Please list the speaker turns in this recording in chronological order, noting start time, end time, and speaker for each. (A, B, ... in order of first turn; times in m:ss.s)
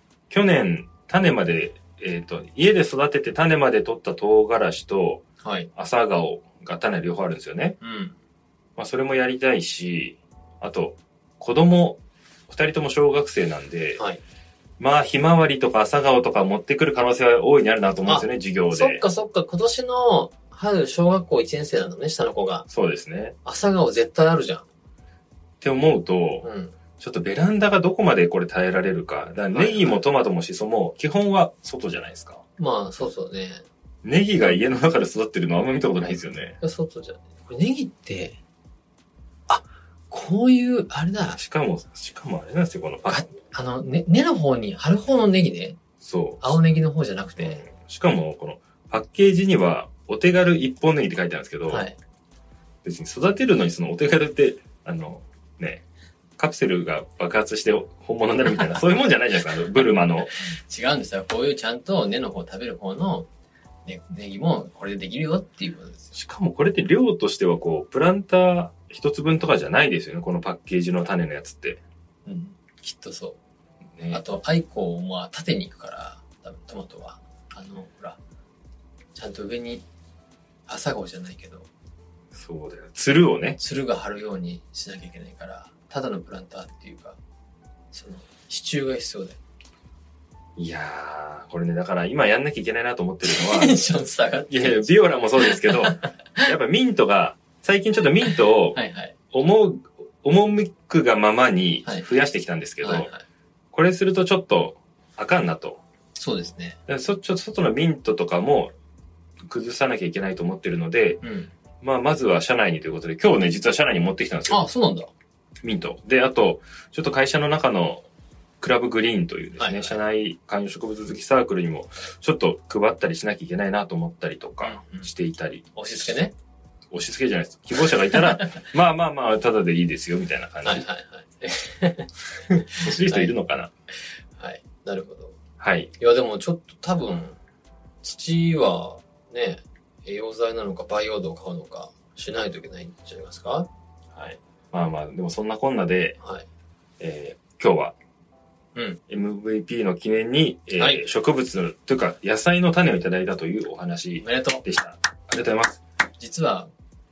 0:00.3-0:05.2 A
0:05.4-0:05.7 B
0:05.8-0:07.8 A
0:07.8-0:08.2 B
0:08.8-0:14.0 A
0:14.8-0:19.0 A
0:18.0-0:22.6 B
0:22.7-0:23.4 A
0:23.4-0:24.6 B
0:25.6-0:26.5 A
0:26.4-0:26.7 B
0:27.0-0:32.4 A
0:29.5-0:30.0 B
0:32.6-0:33.6 B
0:34.0-0:36.6 A
0:36.6-0:38.4 B
0:39.5-0:41.4 B
0:41.3-0:43.3 A
0:43.1-0:45.8 B
0:46.0-0:46.6 A
0:46.4-0:47.6 B
0:47.4-0:51.9 A
0:51.7-0:52.0 B
0:52.8-0:55.8 A
0:56.4-1:00.3 A
1:00.5-1:03.3 B
1:03.8-1:06.1 B
1:06.1-1:11.8 A
1:12.2-1:13.4 B
1:14.0-1:14.2 A
1:14.1-1:18.2 B
1:19.2-1:19.8 B
1:20.7-1:21.7 B
1:22.3-1:23.6 A
1:23.6-1:27.2 B
1:27.9-1:29.4 B
1:30.6-1:33.8 A
1:33.2-1:36.1 B
1:34.5-1:38.8 A
1:38.7-1:39.2 B
1:39.3-1:43.1 A
1:42.8-1:43.2 B
1:43.7-1:45.8 A
1:46.2-1:46.8 B
1:46.9-1:48.7 A
1:49.5-1:51.2 A
1:51.2-1:51.5 B
1:51.8-1:54.6 A
1:54.5-1:55.1 B
1:55.6-1:58.0 A
1:58.6-2:05.7 A
1:59.6-2:00.0 B
2:04.6-2:05.1 B
2:05.8-2:06.3 B
2:06.9-2:10.8 A
2:08.1-2:08.5 B
2:10.6-2:13.3 B
2:12.8-2:13.7 A
2:14.4-2:15.4 B
2:15.6-2:15.9 A
2:16.0-2:17.4 B
2:18.0-2:23.7 B
2:24.1-2:26.2 A
2:27.0-2:27.9 A
2:29.1-2:35.8 A
2:30.8-2:31.0 B
2:34.2-2:34.6 B
2:36.2-2:36.7 B